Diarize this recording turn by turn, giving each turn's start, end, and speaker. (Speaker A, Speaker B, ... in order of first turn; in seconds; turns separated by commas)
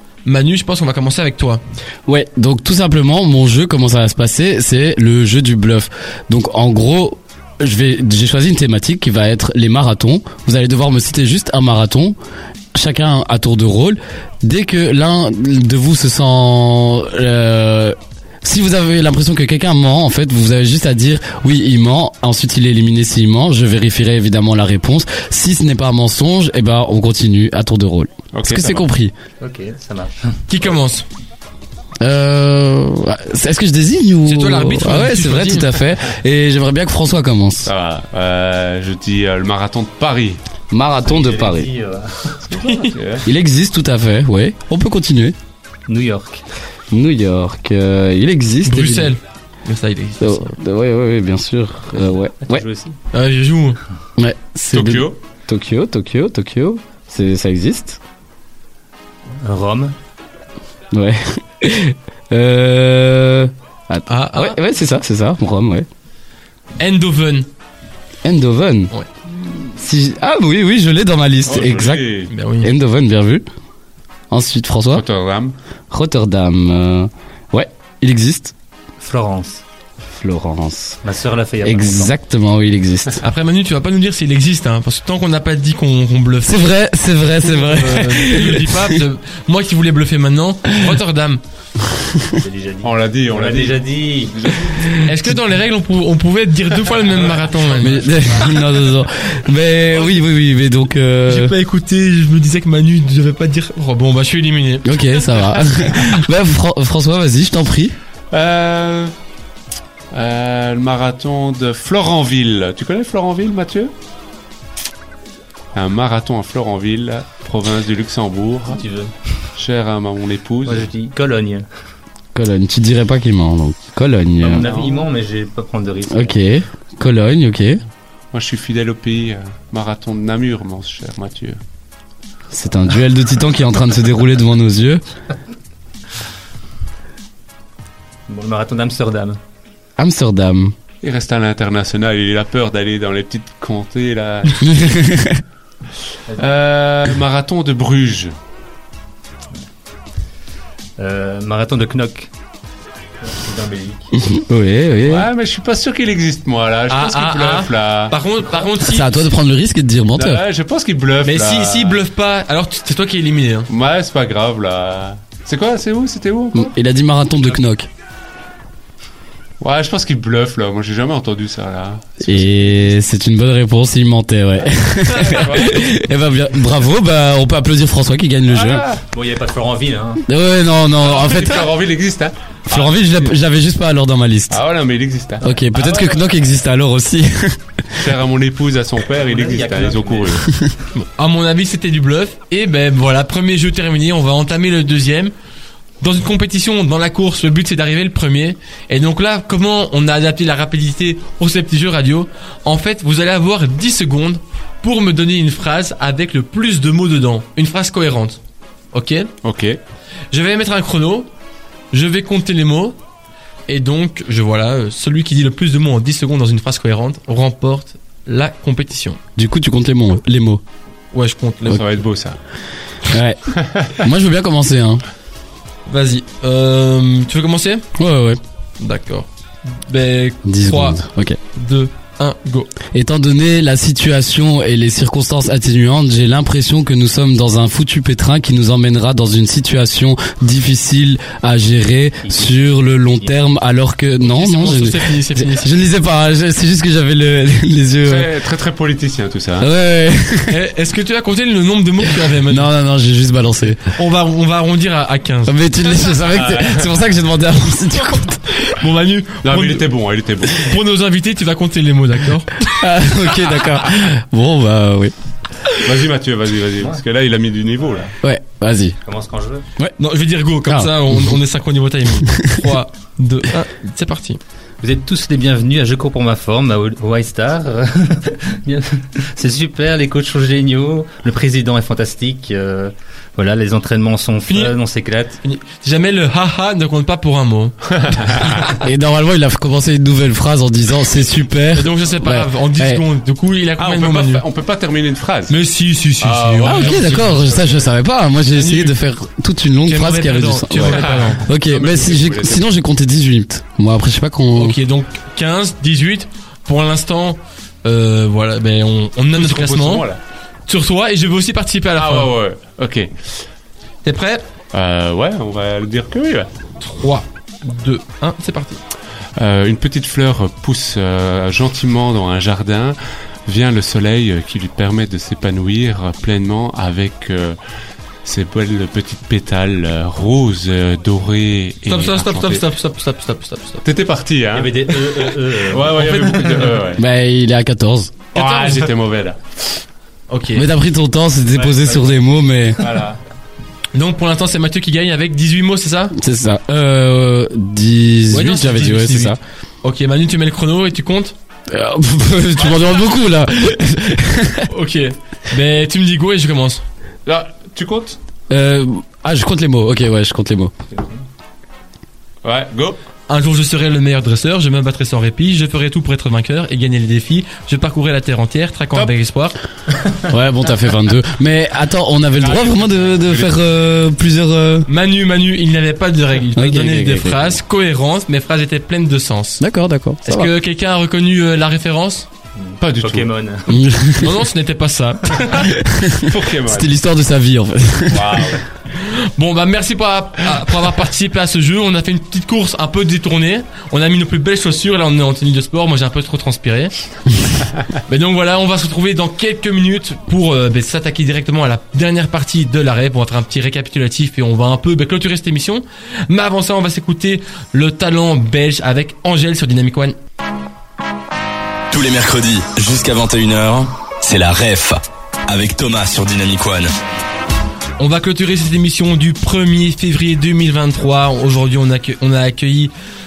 Speaker A: 0.2-1.6, Speaker B: 2.0-12.2, Speaker B: 12.7-29.1, Speaker C: 28.3-28.9, Speaker D: 29.4-30.4, Speaker A: 30.5-31.0, Speaker B: 32.0-37.7, Speaker A: 34.2-35.7, Speaker C: 37.6-40.4, Speaker B: 40.7-41.7, Speaker D: 41.0-42.4, Speaker C: 42.4-43.3, Speaker B: 43.2-45.4, Speaker D: 45.9-46.4, Speaker B: 46.9-49.1, Speaker A: 48.6-50.5, Speaker B: 50.2-52.6, Speaker D: 52.4-53.0, Speaker A: 53.1-53.8, Speaker B: 54.2-58.0, Speaker C: 54.7-55.1, Speaker D: 59.4-60.0, Speaker B: 60.9-65.9, Speaker A: 64.1-64.6, Speaker A: 66.8-67.5, Speaker B: 68.2-68.9, Speaker B: 69.6-72.1, Speaker C: 71.4-72.3, Speaker A: 72.3-72.7, Speaker B: 72.6-73.4, Speaker B: 74.3-75.0, Speaker C: 74.9-75.5, Speaker B: 75.9-78.5, Speaker D: 79.0-79.6, Speaker B: 80.1-81.0, Speaker D: 81.0-82.1, Speaker B: 81.6-83.2, Speaker A: 83.2-86.7, Speaker B: 86.4-89.0, Speaker A: 87.4-91.4, Speaker D: 92.3-94.9, Speaker C: 92.8-95.0, Speaker A: 95.0-98.4, Speaker C: 97.7-98.1, Speaker B: 97.8-101.5, Speaker A: 101.3-105.0, Speaker B: 104.8-108.0, Speaker C: 108.3-109.1, Speaker C: 110.1-113.9, Speaker C: 115.7-118.8, Speaker D: 118.7-119.2, Speaker C: 119.5-120.9, Speaker D: 120.6-121.7, Speaker B: 122.3-124.7, Speaker D: 124.4-126.4, Speaker C: 124.6-125.0, Speaker B: 126.1-127.8, Speaker C: 128.3-131.6, Speaker B: 132.5-135.0, Speaker D: 138.3-139.4, Speaker B: 140.0-140.7, Speaker C: 141.0-145.0, Speaker B: 144.6-145.4, Speaker C: 146.3-148.3, Speaker D: 151.0-152.3, Speaker D: 153.2-154.2, Speaker B: 154.2-155.3, Speaker C: 155.1-158.2, Speaker A: 156.9-159.2, Speaker B: 158.8-160.4, Speaker C: 160.1-162.0, Speaker A: 161.2-163.7, Speaker C: 163.7-166.7, Speaker B: 166.5-167.9, Speaker C: 169.6-172.9, Speaker B: 172.2-178.8, Speaker C: 175.1-175.9, Speaker C: 178.5-179.0, Speaker D: 179.1-180.2, Speaker B: 180.3-181.7, Speaker C: 180.9-183.1, Speaker B: 182.7-184.6, Speaker C: 184.5-186.2, Speaker B: 185.4-188.0, Speaker C: 187.9-190.6, Speaker D: 189.2-190.5, Speaker A: 191.2-195.3, Speaker A: 196.0-208.4, Speaker A: 208.9-209.3, Speaker C: 209.4-209.8, Speaker A: 210.3-211.3, Speaker A: 211.9-212.9, Speaker A: 213.7-219.2, Speaker B: 219.3-220.6, Speaker A: 221.1-221.9, Speaker C: 221.7-222.4, Speaker B: 223.0-225.0, Speaker C: 223.6-224.0, Speaker A: 225.9-227.8, Speaker B: 228.0-228.4, Speaker A: 228.8-231.0, Speaker B: 230.4-231.4, Speaker A: 231.5-232.7, Speaker B: 232.9-248.3, Speaker D: 242.2-242.5, Speaker A: 244.2-245.7, Speaker C: 248.0-249.7, Speaker B: 249.6-250.6, Speaker A: 250.5-252.7, Speaker B: 252.1-253.8, Speaker A: 253.8-255.6, Speaker B: 255.5-258.6, Speaker C: 256.3-257.0, Speaker A: 258.6-259.9, Speaker C: 259.4-260.8, Speaker A: 260.4-262.8, Speaker B: 262.6-265.1, Speaker C: 265.8-268.1, Speaker B: 268.2-269.0, Speaker D: 269.0-269.6, Speaker A: 270.0-274.4, Speaker B: 270.6-271.4, Speaker B: 272.3-272.6, Speaker D: 274.8-285.4, Speaker A: 284.5-284.7, Speaker A: 285.4-288.5, Speaker C: 287.9-288.7, Speaker B: 288.7-293.0, Speaker A: 291.7-294.4, Speaker C: 293.8-295.6, Speaker A: 295.5-297.7, Speaker C: 296.2-297.8, Speaker B: 296.6-304.8, Speaker A: 298.5-298.9, Speaker A: 299.9-301.4, Speaker C: 300.7-302.6, Speaker A: 304.5-310.1, Speaker C: 309.3-310.2, Speaker A: 310.7-312.3, Speaker C: 312.0-313.2, Speaker A: 314.0-314.4, Speaker C: 314.7-316.5, Speaker A: 316.8-318.8, Speaker C: 319.4-327.6, Speaker C: 328.2-332.6, Speaker A: 331.9-333.8, Speaker C: 333.8-337.0, Speaker D: 334.5-336.7, Speaker A: 336.0-336.8, Speaker B: 337.0-338.1, Speaker A: 338.3-338.9, Speaker C: 338.3-339.8, Speaker A: 340.3-340.7, Speaker B: 340.5-342.8, Speaker C: 341.6-342.1, Speaker C: 342.8-343.2, Speaker A: 343.9-346.1, Speaker B: 346.1-349.4, Speaker A: 348.3-351.3, Speaker B: 351.7-354.7, Speaker A: 354.7-356.8, Speaker C: 357.2-358.2, Speaker B: 358.5-360.7, Speaker D: 360.9-361.2, Speaker C: 362.4-363.0, Speaker A: 363.3-369.6, Speaker B: 370.2-374.9, Speaker C: 372.4-373.6, Speaker A: 374.9-379.6, Speaker B: 376.5-377.6, Speaker B: 379.6-380.5, Speaker A: 380.2-382.3, Speaker D: 382.5-383.8, Speaker C: 382.8-383.3, Speaker B: 383.7-384.4, Speaker A: 384.1-385.7, Speaker B: 385.6-388.6, Speaker C: 386.1-386.9, Speaker C: 388.1-388.6, Speaker A: 388.9-397.4, Speaker A: 398.1-410.1, Speaker E: 411.9-416.9, Speaker A: 418.0-422.9